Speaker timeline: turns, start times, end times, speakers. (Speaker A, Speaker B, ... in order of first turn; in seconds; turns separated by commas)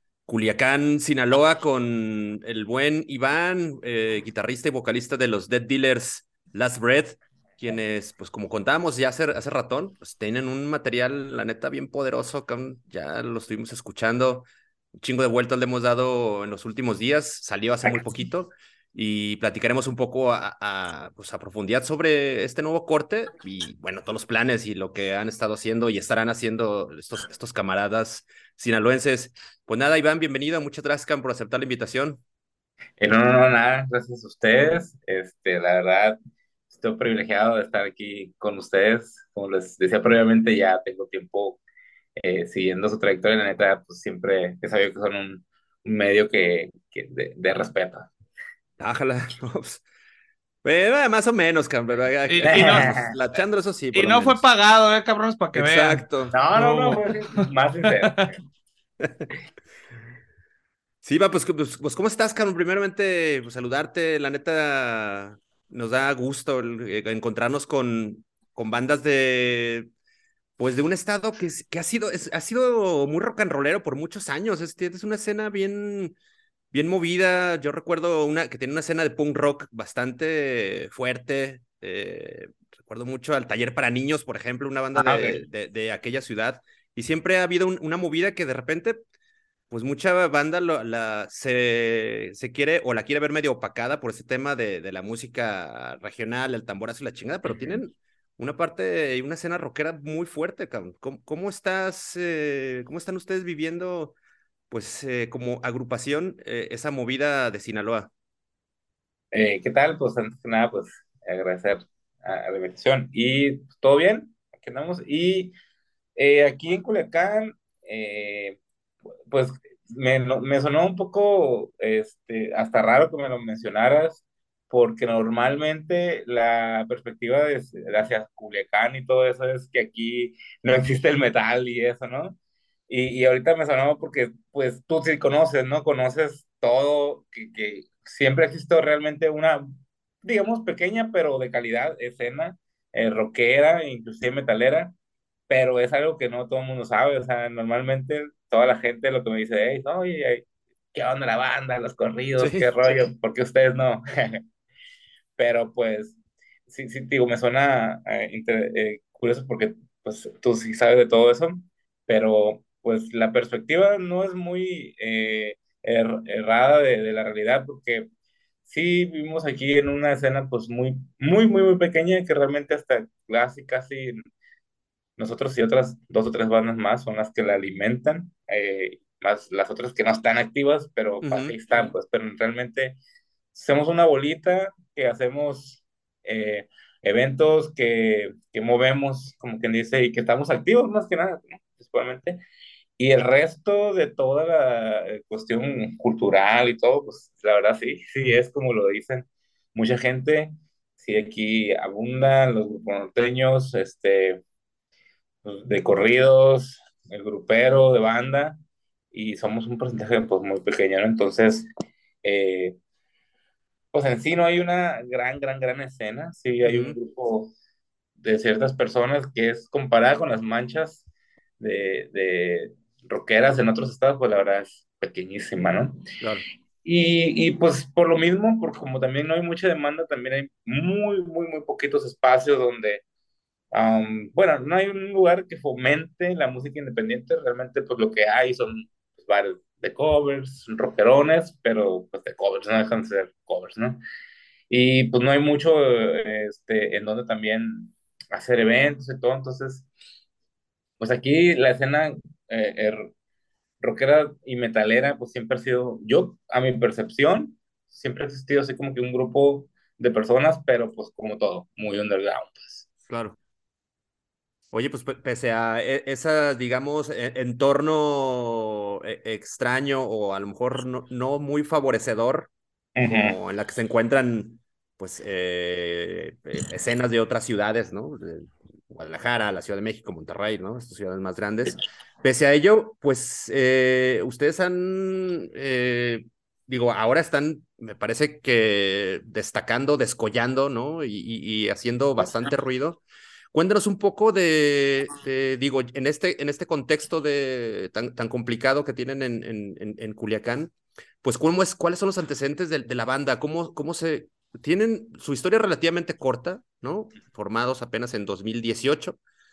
Speaker A: 0.3-32.2, Speaker B: 33.0-36.2, Speaker B: 36.7-41.6, Speaker B: 42.2-48.1, Speaker A: 48.8-49.8, Speaker A: 50.6-54.4, Speaker C: 52.3-52.9, Speaker B: 52.4-53.1, Speaker C: 53.9-58.3, Speaker A: 55.5-56.3, Speaker B: 56.3-58.2, Speaker A: 59.0-59.3, Speaker A: 61.0-69.9, Speaker A: 70.6-76.2, Speaker A: 76.7-89.0, Speaker B: 85.0-85.4, Speaker A: 89.7-104.2, Speaker A: 104.7-108.1, Speaker B: 109.3-115.5, Speaker B: 116.2-118.6, Speaker B: 119.3-132.4, Speaker B: 132.9-139.6, Speaker B: 140.2-144.9, Speaker B: 145.5-154.4, Speaker A: 152.4-152.7, Speaker B: 155.4-156.2, Speaker B: 156.7-168.1, Speaker B: 168.7-174.2, Speaker B: 175.2-183.0, Speaker A: 181.2-181.6, Speaker B: 183.5-192.4, Speaker B: 193.0-204.4, Speaker B: 205.4-208.6, Speaker B: 209.1-211.7, Speaker B: 212.2-212.8, Speaker B: 213.9-217.5, Speaker A: 216.6-217.0, Speaker B: 218.2-221.0, Speaker B: 221.6-226.0, Speaker B: 226.8-233.0, Speaker B: 233.7-244.0, Speaker B: 244.7-249.9, Speaker B: 251.0-253.1, Speaker B: 253.8-262.9, Speaker A: 263.1-263.4, Speaker A: 264.7-272.5, Speaker B: 273.0-273.4, Speaker A: 273.1-309.2